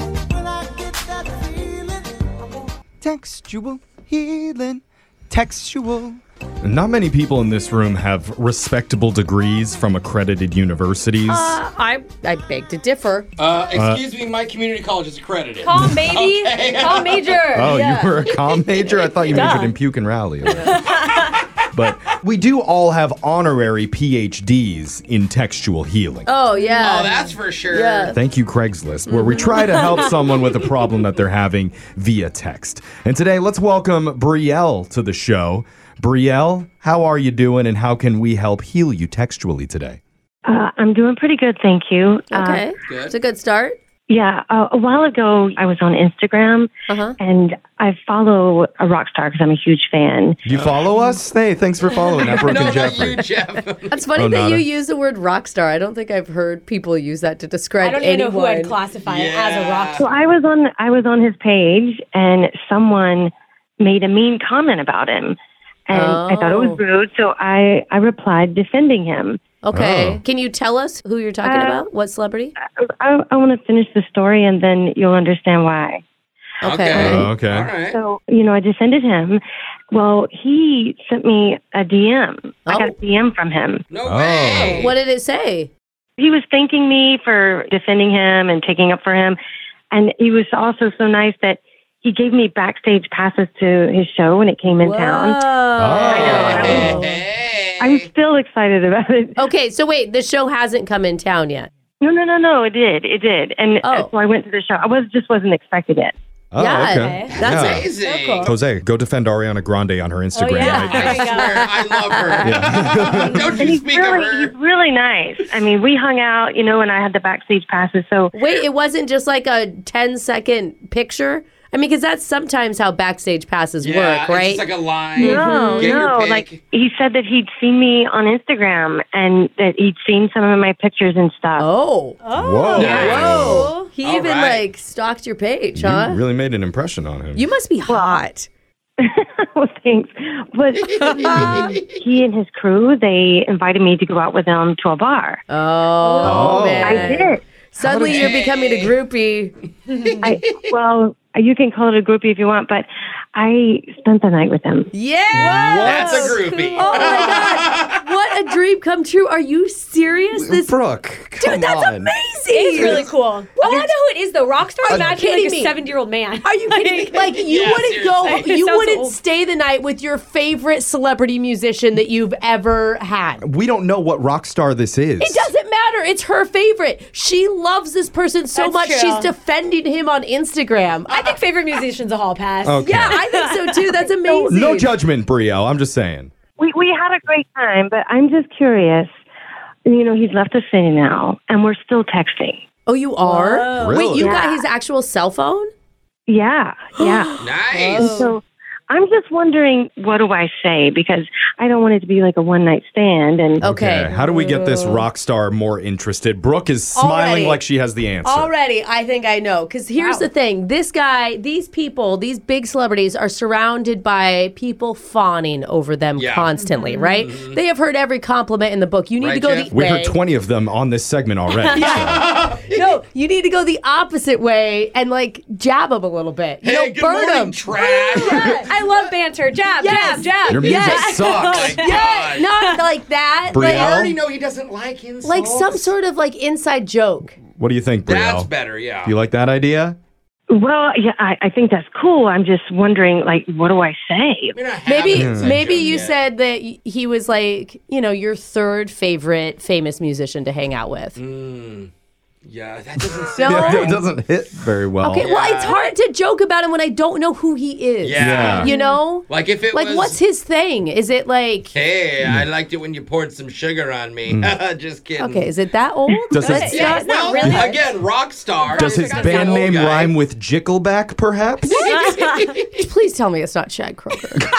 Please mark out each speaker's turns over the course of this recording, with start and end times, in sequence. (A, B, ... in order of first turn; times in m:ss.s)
0:00.4-0:02.0 A
0:03.0-0:11.6 A
0:11.3-0:13.3 B
0:13.4-0:17.5 C
0:13.7-0:14.0 A
0:15.6-0:18.2 D
0:17.5-0:20.9 A
0:19.3-0:19.7 D
0:20.6-0:21.3 D
0:21.7-0:26.3 A
0:26.3-0:28.2 B
0:26.6-0:27.1 D
0:26.8-0:28.1 C
0:28.1-0:40.0 A
0:29.1-0:29.6 B
0:40.4-0:42.6 E
0:42.3-0:43.8 B
0:42.9-0:43.1 C
0:44.1-0:50.4 E
0:46.9-0:47.2 B
0:50.4-0:53.2 A
0:50.5-0:50.8 C
0:52.3-0:54.0 C
0:52.4-0:53.2 B
0:53.9-0:58.8 B
0:54.2-0:54.7 A
0:57.8-1:00.1 D
0:59.0-1:00.1 C
1:00.0-1:05.4 E
1:05.9-1:09.4 E
1:05.9-1:06.8 B
1:09.6-1:12.5 B
1:09.7-1:10.2 A
1:11.4-1:11.8 E
1:12.8-1:16.0 E
1:16.6-1:17.3 B
1:16.6-1:18.0 C
1:17.0-1:17.7 A
1:17.9-1:19.4 E
1:19.9-1:23.8 E
1:22.7-1:22.9 B
1:23.9-1:24.9 C
1:24.0-1:24.9 A
1:24.6-1:25.7 B
1:26.2-1:29.4 E
1:29.9-1:37.1 E
1:34.8-1:37.2 B
1:35.8-1:37.0 A
1:36.1-1:38.1 C
1:37.8-1:39.4 E
1:39.4-1:41.7 B
1:42.0-1:46.1 E
1:43.8-1:44.1 B
1:46.5-1:47.9 A
1:46.6-1:47.9 B
1:46.9-1:47.4 D
1:47.4-1:48.5 C
1:48.0-1:48.5 D
1:48.4-1:51.2 A
1:50.3-1:51.7 D
1:50.6-1:52.8 B
1:50.7-1:54.5 C
1:52.4-1:53.6 A
1:53.4-1:58.3 E
1:58.4-2:04.6 B
2:03.8-2:06.6 C
2:05.2-2:06.0 B
2:05.2-2:11.7 E
2:11.6-2:12.2 B
2:12.2-2:13.9 D
2:12.4-2:13.7 A
2:12.7-2:16.2 B
2:12.8-2:14.7 C
2:15.8-2:17.5 A
2:17.4-2:18.5 B
2:17.9-2:18.2 E
2:19.0-2:25.4 E
2:20.9-2:21.8 C
2:21.3-2:21.7 B
2:25.5-2:29.5 B
2:26.0-2:26.8 D
2:26.2-2:28.3 A
2:26.8-2:27.4 E
2:28.0-2:29.0 C
2:29.9-2:30.2 D
2:30.0-2:30.7 C
2:30.2-2:34.9 E
2:34.9-2:40.8 B
2:35.3-2:36.4 A
2:35.4-2:37.6 D
2:35.8-2:38.0 C
2:40.3-2:42.1 A
2:41.4-2:43.9 B
2:42.5-2:47.4 D
2:42.8-2:43.1 A
2:44.9-2:45.8 B
2:44.9-2:45.1 A
2:46.4-2:53.4 B
2:47.4-2:48.5 C
2:48.2-2:49.2 D
2:53.4-2:55.5 A
2:55.2-3:01.2 B
2:58.5-2:59.3 D
3:01.1-3:04.4 D
3:02.6-3:03.2 A
3:02.8-3:04.9 B
3:04.3-3:04.6 E
3:04.5-3:06.3 A
3:06.6-3:09.1 E
3:09.9-3:12.6 E
3:12.9-3:15.7 B
3:13.2-3:14.2 D
3:13.8-3:14.3 A
3:14.2-3:14.6 E
3:16.3-3:23.6 E
3:17.0-3:18.4 B
3:17.4-3:18.1 C
3:23.6-3:25.1 B
3:23.6-3:28.5 A
3:27.0-3:27.6 B
3:28.2-3:40.2 B
3:30.0-3:30.3 D
3:36.2-3:36.5 C
3:36.6-3:37.2 D
3:37.2-3:37.6 C
3:39.2-3:39.7 C
3:39.7-3:42.2 A
3:41.7-3:42.1 D
3:41.8-3:48.5 B
3:41.8-3:42.9 C
3:46.6-3:48.4 C
3:47.7-3:52.8 D
3:49.8-3:54.0 B
3:50.5-3:51.8 A
3:51.4-3:52.5 C
3:53.5-3:54.2 A
3:53.5-3:55.9 C
3:55.2-3:57.4 B
3:57.6-3:58.5 A
3:58.1-3:59.2 C
3:59.0-4:00.0 A
4:00.5-4:04.6 E
4:04.5-4:06.2 C
4:04.9-4:11.2 B
4:05.1-4:05.6 A
4:11.2-4:11.9 C
4:12.4-4:14.0 C
4:13.4-4:14.0 B
4:13.4-4:15.3 A
4:15.0-4:21.7 B
4:15.1-4:15.9 C
4:18.0-4:18.7 C
4:18.2-4:18.7 A
4:18.6-4:19.0 D
4:19.3-4:20.2 C
4:21.7-4:25.5 C
4:24.3-4:24.6 A
4:25.2-4:27.9 B
4:26.3-4:26.8 A
4:26.4-4:27.9 D
4:26.7-4:30.1 C
4:28.7-4:29.5 D
4:28.8-4:31.8 A
4:31.7-4:32.9 C
4:31.9-4:32.5 D
4:32.7-4:34.5 B